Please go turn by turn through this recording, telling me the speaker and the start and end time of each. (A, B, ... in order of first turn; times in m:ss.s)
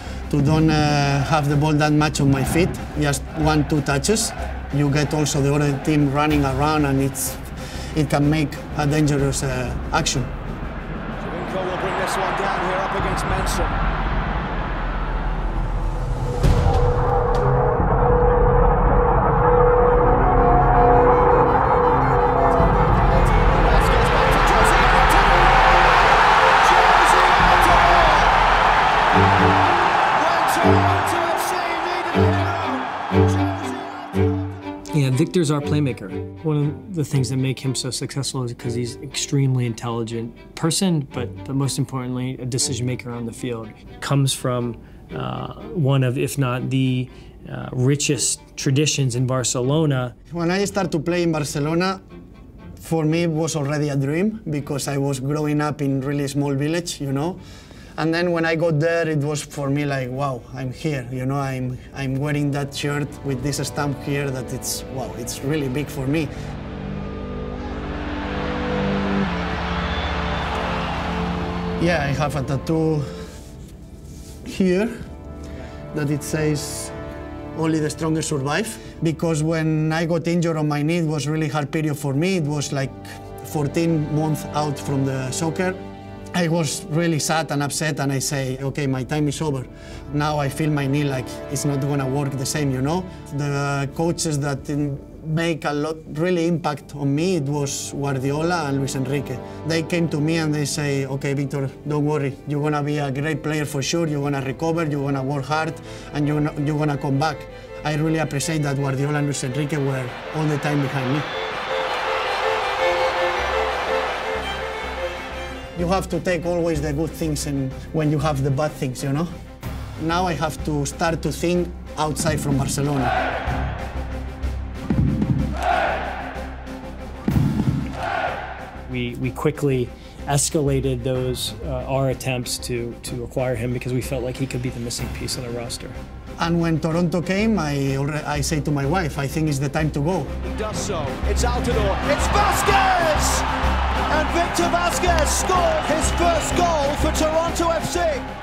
0:00.3-0:10.3 A
0:11.2-0:13.8 B
0:23.3-0:28.4 B
0:30.1-0:34.5 B
0:34.9-0:50.1 C
0:50.3-0:52.0 A
0:52.8-0:57.4 A
0:58.0-1:06.3 A
1:11.8-1:13.1 A
1:14.4-1:14.9 A
1:15.9-1:16.9 A
1:17.5-1:25.8 A
1:26.3-1:51.3 A
1:55.7-1:59.3 A
2:00.0-2:03.1 A
2:08.9-2:16.0 C
2:16.4-2:20.4 A
2:20.4-2:23.5 B
2:24.1-2:28.3 B